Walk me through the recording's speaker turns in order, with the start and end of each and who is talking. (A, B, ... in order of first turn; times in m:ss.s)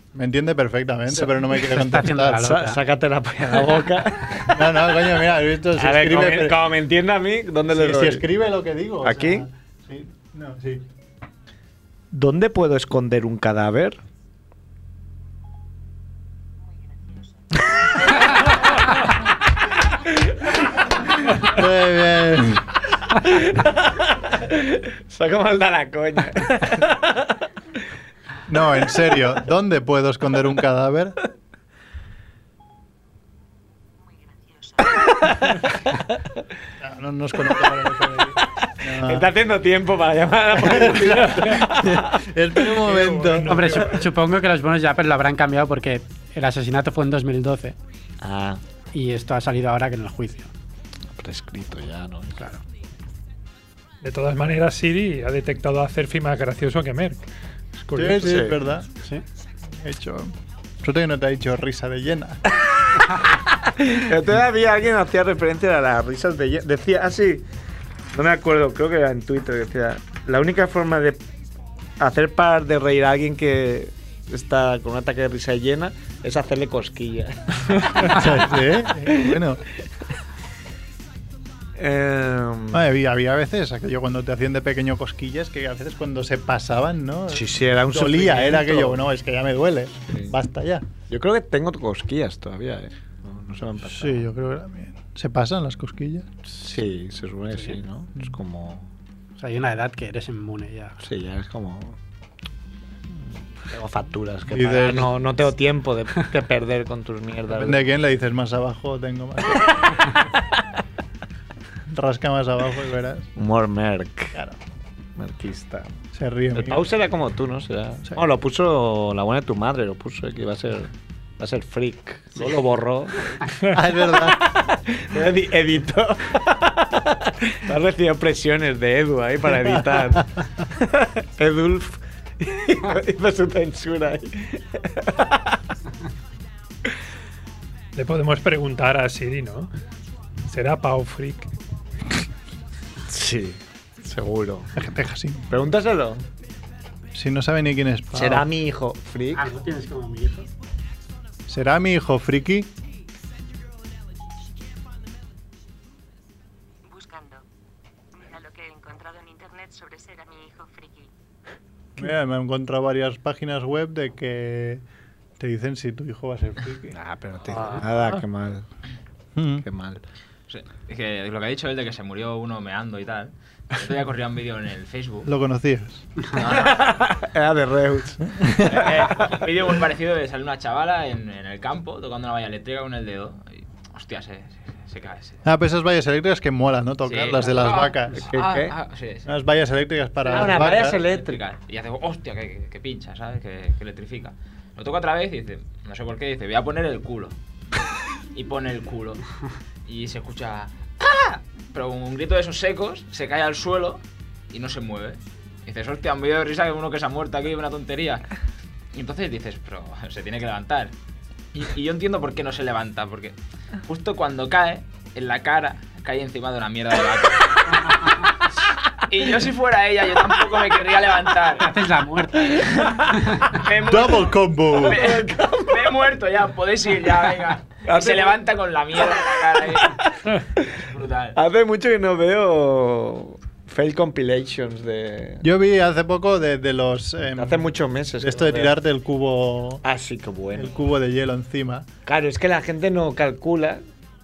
0:00.2-0:02.5 A
0:01.6-0:02.8 B
0:02.3-0:04.8 C
0:04.4-0:06.6 A
0:05.8-0:08.2 C
0:07.7-0:10.9 A
0:09.0-0:09.5 C
0:12.1-0:14.0 C
0:16.9-0:17.3 D
0:18.1-0:18.5 C
0:21.4-0:22.6 A
0:23.1-0:27.3 C
0:28.5-0:31.2 A
0:34.1-0:35.0 D
0:35.3-0:35.6 C
0:36.8-0:39.3 A
0:38.9-0:42.2 C
0:40.5-0:43.8 A
0:42.9-0:44.0 E
0:43.4-0:47.8 B
0:48.2-0:48.6 C
0:48.9-0:50.5 B
0:51.2-0:52.6 C
0:54.0-0:57.2 E
0:57.8-0:58.2 E
0:57.9-0:59.0 A
0:58.1-0:58.6 C
0:59.7-1:02.4 A
1:03.9-1:07.4 C
1:08.1-1:11.2 C
1:12.0-1:18.3 C
1:18.1-1:19.6 A
1:21.8-1:22.8 C
1:22.7-1:30.9 A
1:27.3-1:29.0 C
1:31.1-1:34.2 C
1:33.8-1:36.3 A
1:36.5-1:38.9 C
1:39.4-1:41.0 B
1:41.0-1:42.0 C
1:43.6-1:47.8 C
1:44.5-1:45.1 A
1:47.5-1:50.2 A
1:51.9-1:53.3 A
1:53.4-1:54.4 C
1:55.2-1:56.0 C
1:56.1-1:56.9 A
1:56.6-2:03.5 C
2:03.7-2:04.5 A
2:04.1-2:15.6 C
2:18.0-2:19.7 E
2:20.5-2:21.5 E
2:23.1-2:24.7 C
2:24.8-2:25.5 A
2:25.5-2:26.2 C
2:27.1-2:28.5 A
2:28.2-2:29.5 C
2:29.4-2:30.5 B
2:31.5-2:32.7 A
2:36.9-2:37.4 D
2:38.2-2:41.1 D
2:42.0-2:44.8 A
2:45.4-2:47.0 A
2:46.9-2:48.6 C
2:49.4-2:49.7 A
2:49.6-2:50.0 C
2:50.5-2:55.3 F
2:55.3-2:56.1 A
2:56.3-2:56.8 F
2:56.5-2:59.3 C
2:58.4-2:58.8 A
2:58.7-3:05.4 F
3:05.4-3:08.4 A
3:07.0-3:09.3 F
3:08.3-3:08.7 C
3:09.3-3:11.0 A
3:10.2-3:11.4 C
3:10.6-3:17.4 F
3:18.3-3:19.2 F
3:19.9-3:28.3 F
3:28.9-3:30.9 F
3:31.5-3:37.9 F
3:39.1-3:41.7 F
3:41.6-3:43.4 B
3:43.5-3:49.9 F
3:43.8-3:45.0 A
3:44.8-3:45.9 C
3:47.8-3:48.4 C
3:49.7-3:50.8 C
3:50.8-3:51.4 F
3:51.4-3:55.4 C
3:55.4-3:59.8 A
3:57.4-3:58.8 C
3:59.8-4:00.7 C
4:00.5-4:01.9 A
4:02.1-4:03.8 C